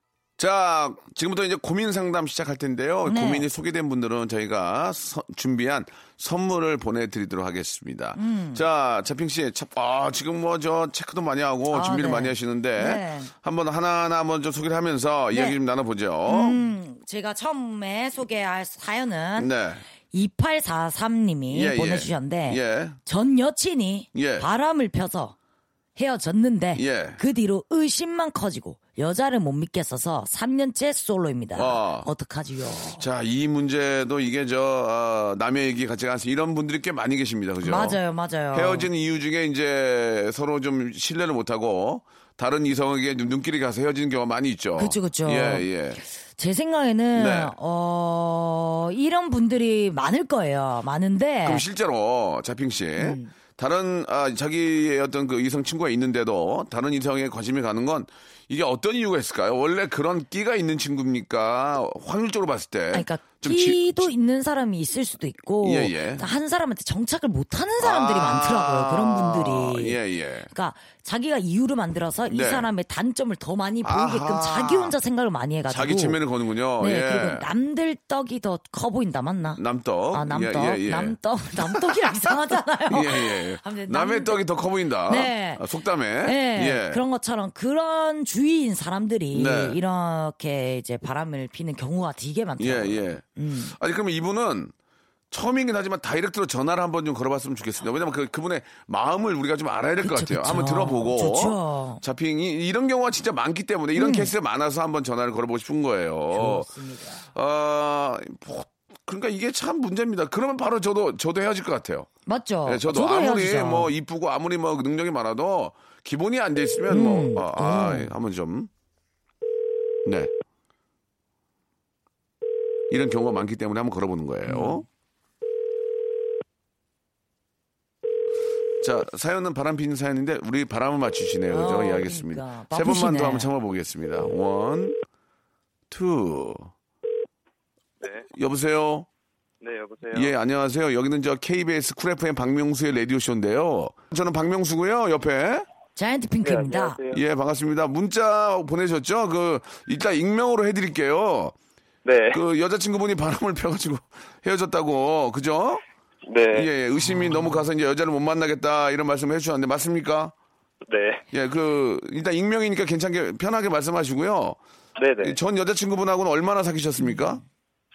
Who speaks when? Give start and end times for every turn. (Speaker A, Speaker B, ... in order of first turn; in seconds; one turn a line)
Speaker A: 0.4-16.6
Speaker B: 3.0-3.4
Speaker B: 8.1-8.6
Speaker B: 11.7-13.3
Speaker B: 15.3-15.6
Speaker B: 16.2-19.5
Speaker A: 19.4-19.8
Speaker B: 20.1-25.4
Speaker A: 21.5-23.0
Speaker A: 24.1-24.5
Speaker B: 25.9-33.0
Speaker A: 26.7-27.2
Speaker A: 31.5-32.1
Speaker A: 33.0-38.0
Speaker B: 37.6-38.9
Speaker A: 38.5-46.0
Speaker B: 44.8-51.6
Speaker A: 47.1-47.5
Speaker A: 51.4-64.1
Speaker B: 53.0-53.3
Speaker B: 62.9-70.0
Speaker A: 65.6-66.2
Speaker A: 67.8-70.5
Speaker B: 70.5-76.2
Speaker A: 72.3-72.7
Speaker A: 73.8-74.9
Speaker A: 75.7-77.5
Speaker B: 76.8-79.6
Speaker A: 79.6-81.2
Speaker B: 80.1-84.4
Speaker A: 82.9-87.0
Speaker B: 85.1-85.6
Speaker B: 86.2-93.8
Speaker A: 89.3-89.8
Speaker A: 92.6-94.7
Speaker A: 95.3-106.7
Speaker B: 100.0-102.0
Speaker B: 103.9-104.3
Speaker B: 106.3-107.3
Speaker A: 107.3-112.1
Speaker B: 112.2-113.9
Speaker A: 112.6-118.7
Speaker B: 116.9-118.1
Speaker A: 120.0-120.3
Speaker A: 122.9-124.8
Speaker B: 124.4-124.8
Speaker A: 128.8-135.0
Speaker B: 131.5-133.5
Speaker A: 135.9-136.7
Speaker C: 138.0-138.3
Speaker A: 138.3-139.1
Speaker C: 139.6-140.3
Speaker A: 140.1-145.7
Speaker B: 145.9-147.0
Speaker C: 146.4-147.2
Speaker A: 147.1-151.5
Speaker C: 152.0-152.4
Speaker A: 152.3-155.8
Speaker C: 156.2-156.7
Speaker A: 156.5-160.3
Speaker B: 157.0-157.6
Speaker C: 160.9-161.2
Speaker A: 161.3-164.6
Speaker C: 165.0-165.4
Speaker A: 165.2-167.4
Speaker B: 167.0-167.4